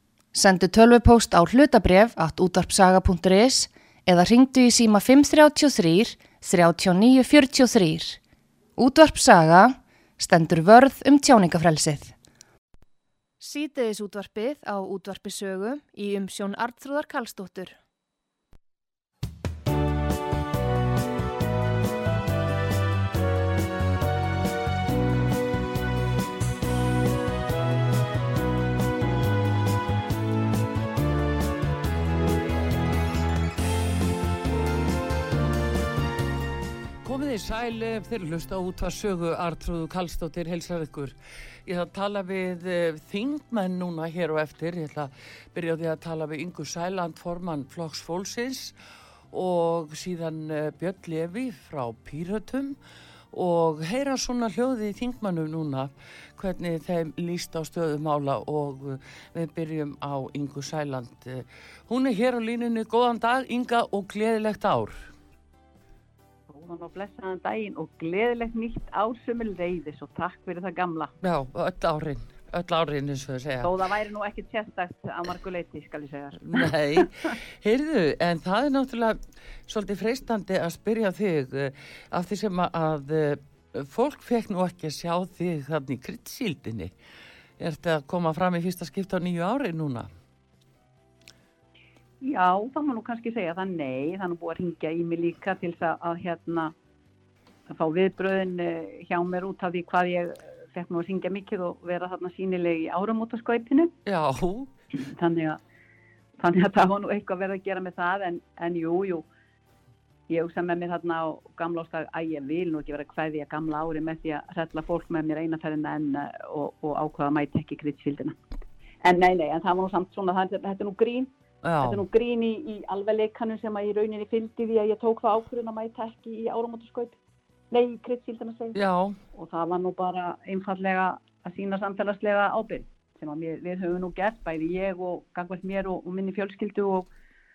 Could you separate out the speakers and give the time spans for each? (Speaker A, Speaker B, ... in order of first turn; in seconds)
Speaker A: 0.3-8.2, 8.8-12.1, 13.4-17.8
Speaker B: 37.0-48.8, 49.3-52.8, 53.3-65.1, 71.2-73.7, 76.4-86.9, 87.6-90.1, 104.0-104.7, 121.6-122.0, 128.7-129.2
Speaker C: 66.5-71.1, 73.6-77.3, 92.2-96.7, 97.7-103.9, 104.9-105.6, 106.4-109.2, 110.3-118.3, 119.0-121.3, 121.8-127.2, 127.7-128.8, 129.3-137.1